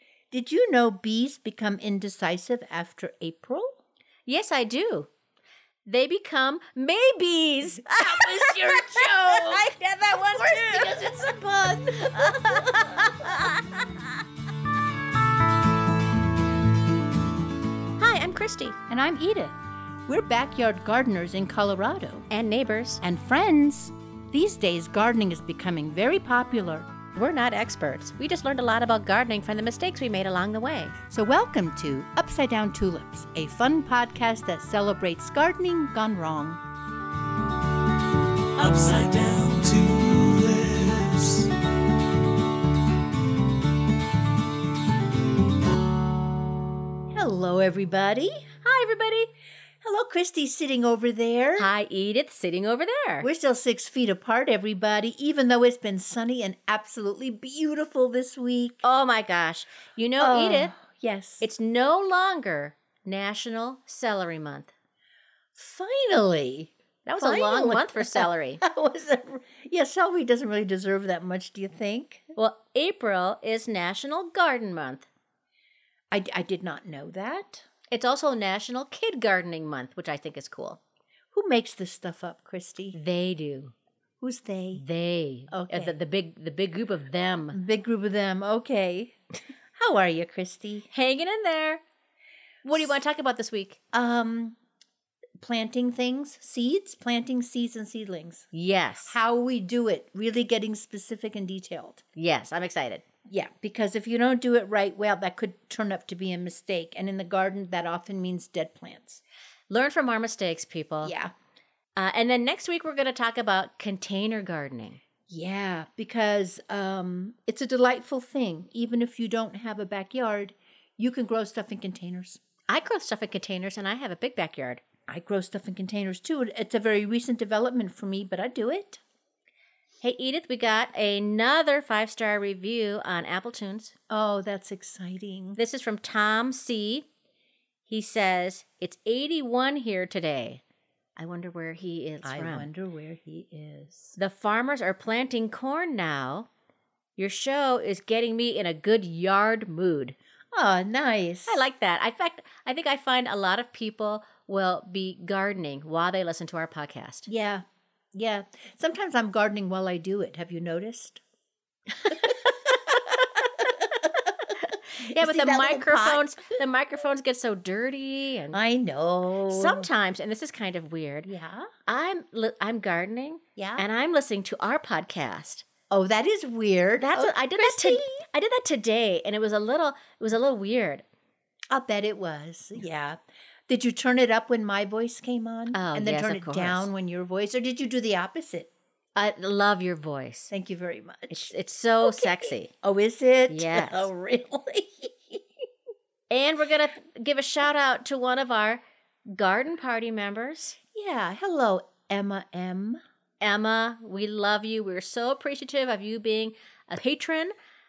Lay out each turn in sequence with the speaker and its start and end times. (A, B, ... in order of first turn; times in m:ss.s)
0:00.3-0:03.8 A
0:04.3-0:05.1 B
0:05.9-0:11.4 B
0:07.9-0:13.0 A
0:11.9-0:14.1 B
0:18.0-0:18.8 B
0:18.9-0:22.3 A
0:22.3-0:23.0 B
0:23.0-0:26.9 A
0:27.2-0:30.9 B
0:31.1-0:36.6 A
0:38.6-0:41.5 C
0:47.1-0:48.5 A
0:48.6-0:49.3 B
0:49.8-0:51.7 A
0:51.6-0:53.3 B
0:53.2-0:58.8 A
0:58.8-1:00.7 B
1:00.2-1:01.5 A
1:01.4-1:04.7 B
1:05.6-1:12.3 A
1:07.0-1:08.6 B
1:12.4-1:15.1 B
1:16.1-1:17.7 A
1:17.9-1:20.8 B
1:21.3-1:23.0 A
1:23.0-1:23.7 B
1:24.2-1:24.8 A
1:24.8-1:27.6 B
1:25.5-1:26.0 A
1:27.5-1:29.2 A
1:29.8-1:30.9 A
1:30.9-1:31.8 B
1:32.6-1:33.8 B
1:33.9-1:34.6 A
1:35.4-1:38.5 A
1:38.5-1:39.2 B
1:39.1-1:42.0 A
1:42.2-1:43.0 B
1:43.3-1:49.2 A
1:49.7-1:51.1 B
1:51.0-1:51.3 A
1:52.0-1:55.0 B
1:55.3-2:02.4 A
2:02.7-2:04.8 B
2:05.1-2:09.0 A
2:10.0-2:13.9 B
2:14.1-2:15.6 A
2:15.6-2:17.1 B
2:17.9-2:20.6 B
2:21.2-2:22.7 B
2:22.2-2:24.2 A
2:24.2-2:26.5 B
2:27.2-2:30.2 B
2:30.5-2:31.6 A
2:31.5-2:37.3 B
2:37.3-2:41.2 A
2:42.0-2:42.9 B
2:44.5-2:46.5 A
2:44.6-2:48.6 B
2:48.5-2:49.9 A
2:49.5-2:51.3 B
2:51.3-2:51.7 A
2:51.9-2:55.7 B
2:53.6-2:53.9 A
2:55.9-2:58.2 A
2:57.0-3:01.0 B
3:01.7-3:03.2 A
3:03.7-3:08.7 A
3:05.7-3:06.9 B
3:09.2-3:10.5 B
3:10.5-3:15.4 A
3:11.3-3:12.7 B
3:13.5-3:14.1 B
3:16.3-3:20.8 B
3:20.9-3:23.0 A
3:23.4-3:27.5 B